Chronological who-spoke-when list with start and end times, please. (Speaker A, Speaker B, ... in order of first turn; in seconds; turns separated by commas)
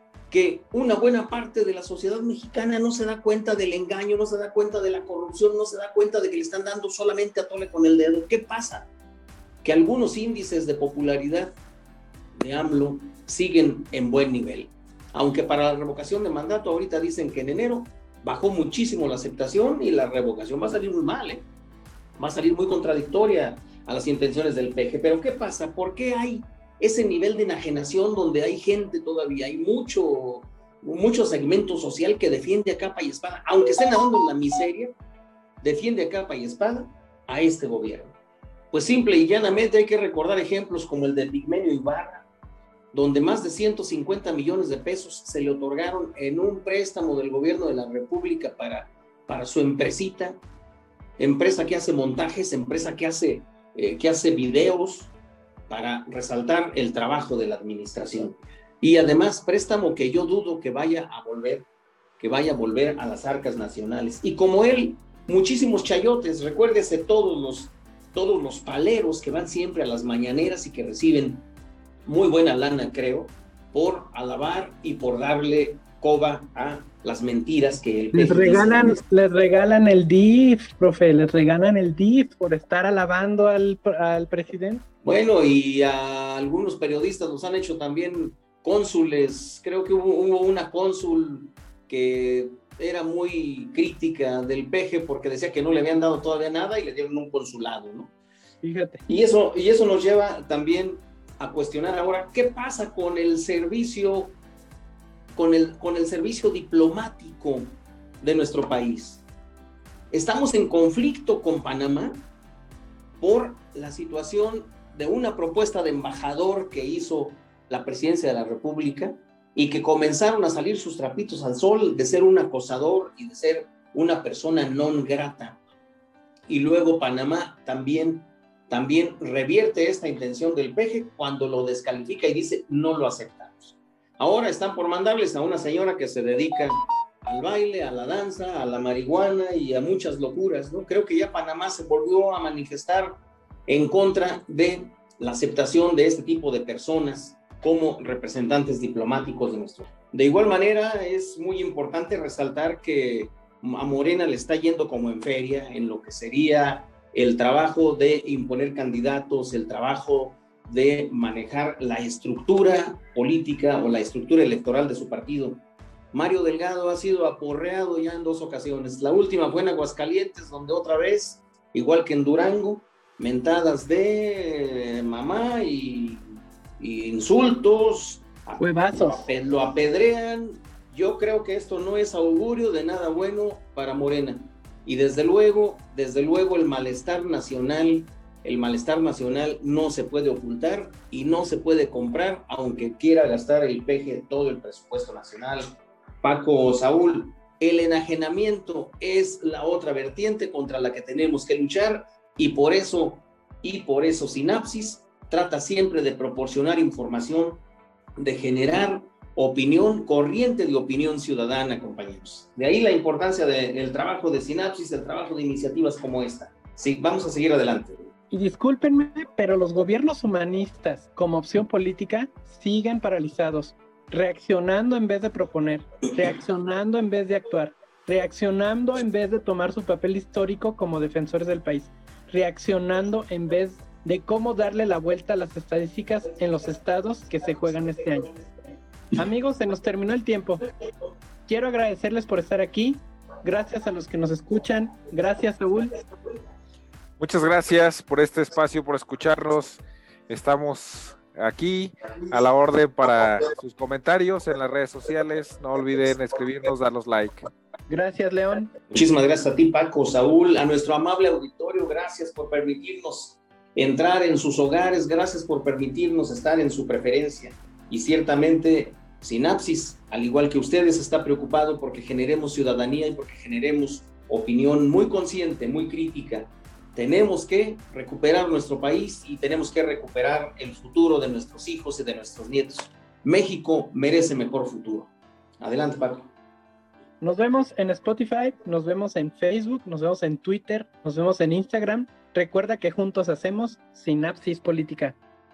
Speaker A: 0.3-8.9, Speaker A: 9.6-11.6, Speaker A: 12.3-21.4, Speaker A: 22.2-34.9, Speaker A: 35.6-38.1, Speaker A: 38.7-42.2, Speaker A: 42.9-50.4, Speaker A: 51.2-55.1, Speaker A: 55.7-61.7, Speaker A: 62.2-71.5, Speaker A: 72.0-79.0, Speaker B: 78.1-84.8, Speaker A: 85.0-98.1, Speaker B: 98.6-99.0, Speaker A: 99.1-104.4, Speaker A: 105.3-109.2, Speaker A: 110.1-112.2, Speaker A: 113.2-125.6, Speaker A: 126.5-165.6, Speaker A: 166.1-207.6, Speaker B: 178.6-179.2, Speaker A: 208.2-218.0, Speaker B: 218.3-238.3, Speaker B: 239.1-240.6, Speaker B: 241.5-245.9, Speaker C: 247.2-257.4, Speaker B: 257.9-258.7, Speaker A: 258.9-286.3, Speaker B: 287.2-295.2